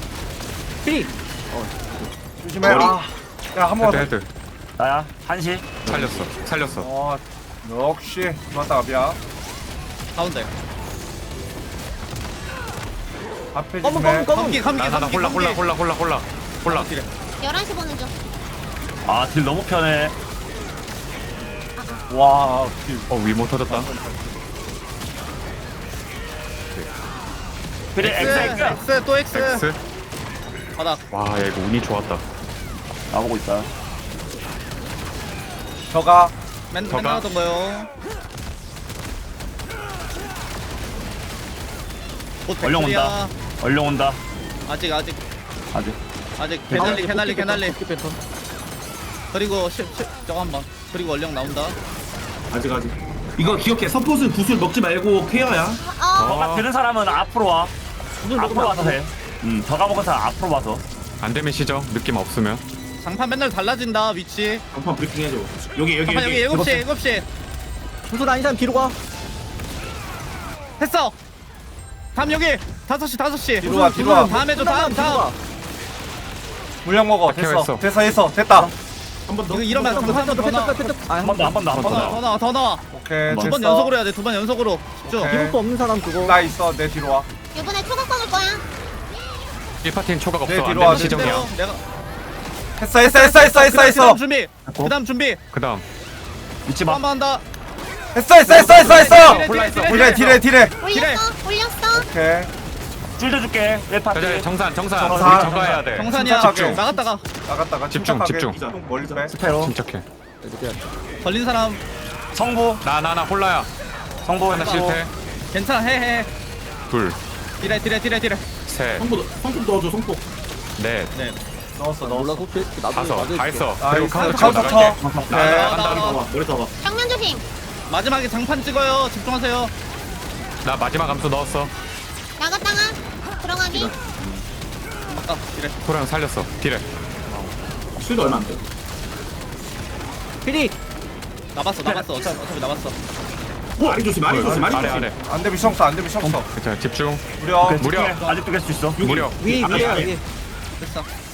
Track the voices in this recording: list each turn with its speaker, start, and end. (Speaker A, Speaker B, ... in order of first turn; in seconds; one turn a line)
Speaker A: 0.8-2.1
Speaker B: 2.4-4.1
Speaker C: 2.6-3.0
Speaker D: 3.8-4.3
Speaker E: 4.8-6.3
Speaker D: 5.8-6.9
Speaker B: 6.8-9.2
Speaker F: 10.1-10.5
Speaker B: 13.5-14.4
Speaker A: 13.8-14.7
Speaker F: 14.3-15.6
Speaker D: 14.7-16.9
Speaker F: 16.6-17.1
Speaker G: 17.4-18.1
Speaker E: 19.0-20.1
Speaker G: 21.8-22.0
Speaker B: 22.1-23.1
Speaker D: 23.1-23.9
Speaker B: 23.7-24.4
Speaker E: 27.9-28.8
Speaker F: 28.0-29.6
Speaker D: 29.3-29.8
Speaker F: 30.8-31.0
Speaker D: 31.1-32.2
Speaker E: 33.1-33.7
Speaker B: 35.9-36.3
Speaker F: 36.7-37.9
Speaker D: 36.9-37.2
Speaker F: 42.5-43.3
Speaker E: 42.6-44.2
Speaker F: 44.7-45.2
Speaker E: 45.7-46.0
Speaker F: 46.4-47.8
Speaker E: 46.7-47.1
Speaker A: 46.7-48.2
Speaker F: 49.3-51.8
Speaker C: 52.5-55.8
Speaker G: 55.8-56.4
Speaker D: 56.1-56.7
Speaker E: 56.2-57.7
Speaker A: 58.2-58.9
Speaker E: 58.3-60.8
Speaker C: 58.5-58.9
Speaker D: 61.2-62.6
Speaker F: 63.0-64.6
Speaker C: 64.7-66.7
Speaker F: 66.0-67.2
Speaker E: 66.5-66.8
Speaker A: 68.0-69.0
Speaker F: 70.8-71.2
Speaker F: 72.1-75.3
Speaker B: 73.6-74.3
Speaker A: 73.7-75.4
Speaker B: 76.8-78.7
Speaker D: 77.2-77.8
Speaker C: 79.2-80.3
Speaker F: 79.5-81.0
Speaker A: 79.7-81.8
Speaker E: 81.2-82.2
Speaker D: 81.7-82.2
Speaker F: 81.8-82.8
Speaker B: 82.9-83.9
Speaker F: 83.3-85.3
Speaker A: 85.1-86.4
Speaker B: 85.2-85.6
Speaker B: 86.2-87.3
Speaker G: 87.5-88.6
Speaker D: 89.8-91.5
Speaker B: 90.5-91.5
Speaker F: 90.8-91.8
Speaker B: 92.8-94.2
Speaker F: 93.0-95.4
Speaker E: 94.7-94.9
Speaker D: 95.5-95.8
Speaker E: 96.7-97.0
Speaker F: 96.8-97.4
Speaker B: 98.1-100.7
Speaker F: 98.5-101.2
Speaker D: 98.8-100.2
Speaker G: 100.8-102.1
Speaker B: 101.9-102.5
Speaker E: 103.2-105.8
Speaker D: 104.1-106.8
Speaker B: 105.0-109.3
Speaker F: 105.9-107.2
Speaker D: 107.9-108.6
Speaker C: 108.4-109.3
Speaker E: 109.3-109.8
Speaker D: 109.5-110.0
Speaker F: 111.2-111.8
Speaker E: 112.3-112.8
Speaker D: 112.8-113.7
Speaker E: 114.2-115.0
Speaker D: 114.5-115.1
Speaker F: 114.5-115.0
Speaker F: 115.5-116.3
Speaker D: 116.9-117.2
Speaker F: 117.6-118.5
Speaker D: 118.7-119.1
Speaker C: 119.0-120.2
Speaker D: 120.8-121.1
Speaker B: 121.8-122.5
Speaker A: 122.0-123.8
Speaker D: 122.9-126.2
Speaker B: 123.8-125.8
Speaker E: 124.2-125.5
Speaker F: 125.3-126.2
Speaker C: 125.3-126.7
Speaker G: 126.8-127.4
Speaker F: 127.9-129.7
Speaker D: 130.6-131.7
Speaker G: 132.4-133.9
Speaker C: 133.7-134.4
Speaker F: 135.1-135.8
Speaker D: 135.8-136.8
Speaker C: 138.0-138.7
Speaker A: 140.4-140.8
Speaker F: 141.5-142.9
Speaker E: 141.8-142.3
Speaker C: 143.8-145.1
Speaker D: 144.2-145.2
Speaker B: 144.4-146.5
Speaker D: 146.2-147.2
Speaker B: 147.4-147.8
Speaker E: 147.6-149.0
Speaker D: 147.8-148.2
Speaker C: 149.0-150.2
Speaker D: 149.0-149.4
Speaker A: 149.4-150.2
Speaker E: 149.7-150.1
Speaker F: 150.8-151.1